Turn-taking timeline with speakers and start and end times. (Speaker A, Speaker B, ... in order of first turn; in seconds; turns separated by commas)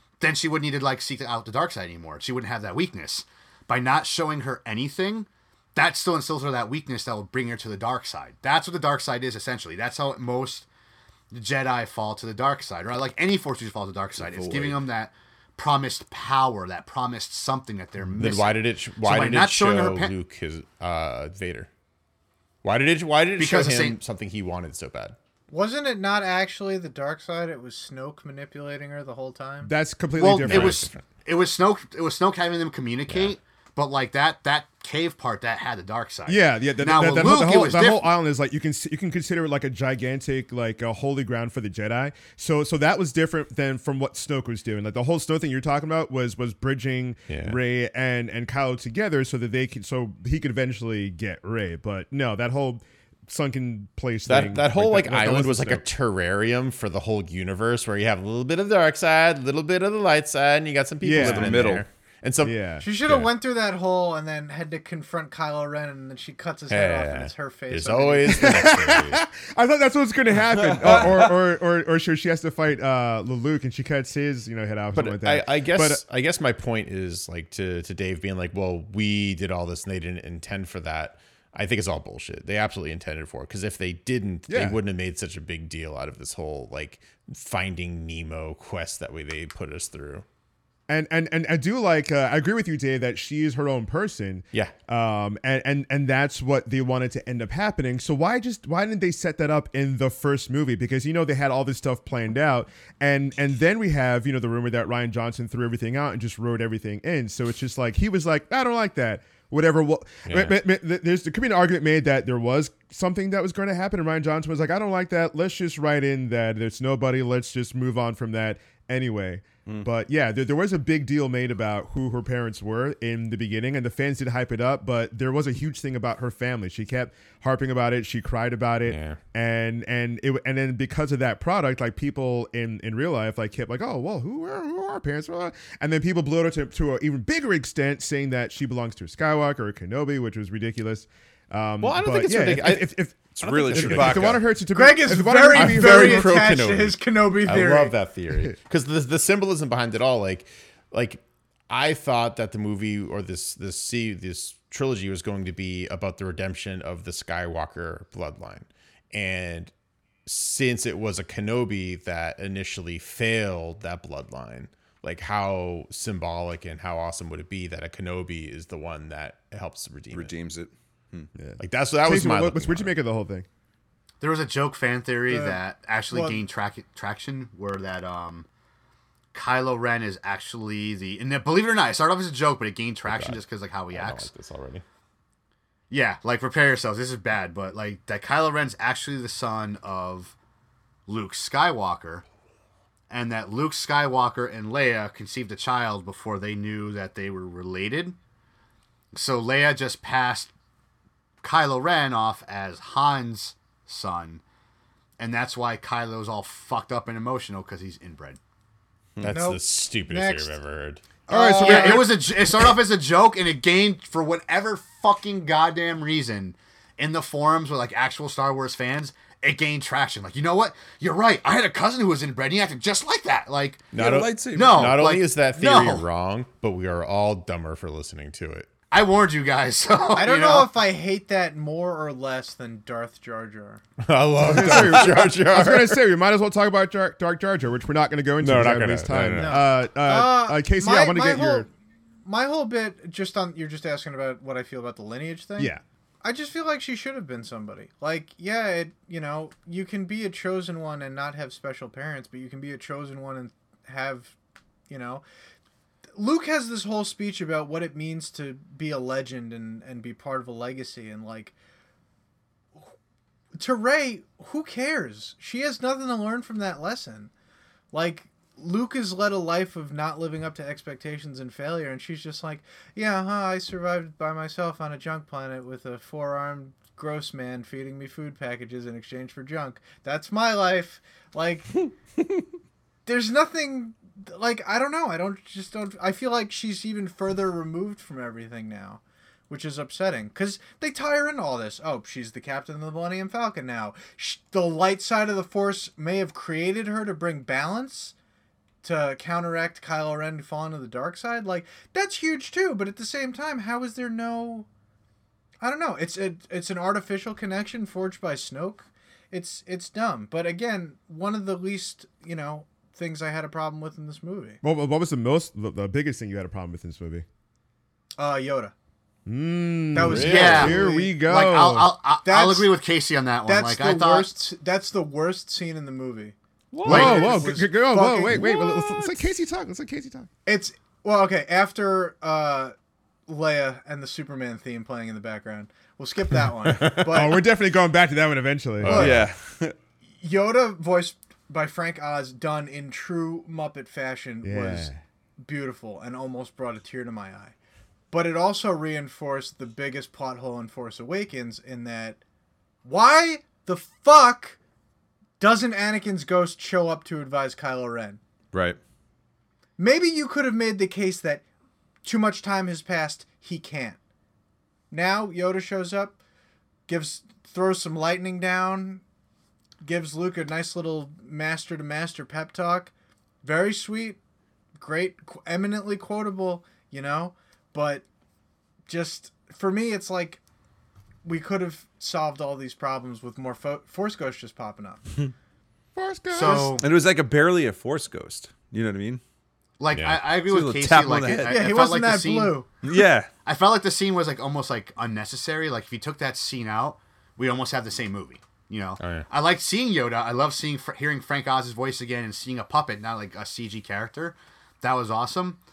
Speaker A: 0.2-10.7, Speaker A: 11.3-20.1, Speaker B: 14.2-14.8, Speaker C: 18.2-21.7, Speaker C: 22.6-25.1, Speaker A: 23.4-24.0, Speaker D: 25.5-29.7, Speaker E: 29.6-30.8, Speaker A: 30.2-38.1, Speaker C: 30.4-31.0, Speaker C: 33.1-33.4, Speaker E: 36.3-55.9, Speaker C: 47.3-47.6, Speaker C: 54.3-63.3, Speaker E: 61.0-61.8, Speaker B: 61.1-61.9, Speaker E: 62.4-62.8, Speaker D: 62.8-68.8, Speaker C: 66.7-69.2, Speaker E: 68.3-76.0, Speaker B: 70.4-71.4, Speaker C: 74.9-90.2, Speaker E: 84.5-84.8, Speaker E: 90.9-146.4, Speaker C: 110.3-110.6, Speaker C: 128.9-129.2, Speaker C: 141.8-142.9, Speaker B: 143.3-144.4, Speaker C: 143.4-144.4, Speaker D: 144.7-147.9, Speaker C: 145.5-159.7, Speaker C: 160.3-170.3, Speaker B: 170.1-171.3, Speaker E: 171.4-173.5, Speaker C: 171.6-172.9, Speaker A: 174.2-178.5, Speaker D: 175.3-175.6, Speaker D: 176.1-176.4, Speaker A: 179.3-184.3, Speaker C: 183.1-184.8, Speaker A: 185.9-190.3, Speaker A: 191.1-192.2, Speaker A: 193.1-198.2, Speaker A: 199.1-200.5, Speaker A: 201.4-204.4, Speaker A: 205.2-208.4, Speaker C: 209.2-211.0, Speaker D: 209.3-210.6, Speaker D: 211.3-212.2, Speaker A: 211.3-223.9, Speaker C: 211.6-212.1, Speaker C: 223.9-228.7, Speaker B: 223.9-225.0, Speaker A: 224.5-226.1, Speaker A: 228.9-230.7, Speaker D: 230.2-233.8, Speaker C: 234.0-236.0, Speaker E: 234.4-241.7, Speaker C: 238.4-239.6, Speaker D: 239.3-241.7, Speaker D: 242.2-254.3, Speaker D: 254.9-255.2, Speaker D: 256.2-261.5, Speaker D: 263.6-267.3, Speaker D: 267.9-281.8, Speaker D: 283.1-298.1, Speaker D: 298.8-304.7, Speaker D: 305.6-314.6, Speaker E: 314.6-317.2, Speaker D: 318.2-318.7, Speaker E: 319.3-321.9, Speaker D: 319.9-321.1, Speaker C: 320.0-320.8, Speaker A: 320.3-324.3, Speaker D: 322.2-322.7, Speaker D: 323.5-328.4, Speaker C: 326.7-327.2, Speaker A: 326.8-327.5, Speaker E: 326.9-330.3, Speaker C: 328.5-329.2, Speaker D: 330.5-332.7, Speaker D: 333.3-337.4, Speaker E: 337.0-339.3, Speaker B: 338.8-339.8, Speaker D: 338.9-339.3, Speaker D: 340.2-347.5, Speaker E: 344.4-345.0, Speaker D: 348.1-352.2, Speaker D: 352.9-354.6, Speaker D: 355.4-358.2, Speaker B: 358.5-358.8, Speaker D: 359.8-361.4, Speaker D: 362.0-364.0, Speaker D: 364.9-366.2, Speaker D: 366.9-369.0, Speaker D: 369.8-372.9, Speaker D: 373.4-374.2, Speaker D: 374.8-378.1, Speaker D: 378.9-380.4, Speaker D: 381.2-385.2, Speaker E: 385.9-386.8, Speaker A: 386.3-386.9, Speaker B: 386.4-389.2, Speaker A: 389.8-392.6, Speaker C: 389.9-390.2, Speaker B: 390.4-391.7, Speaker D: 391.4-392.7, Speaker B: 392.8-393.3, Speaker A: 393.4-405.6, Speaker C: 399.0-399.3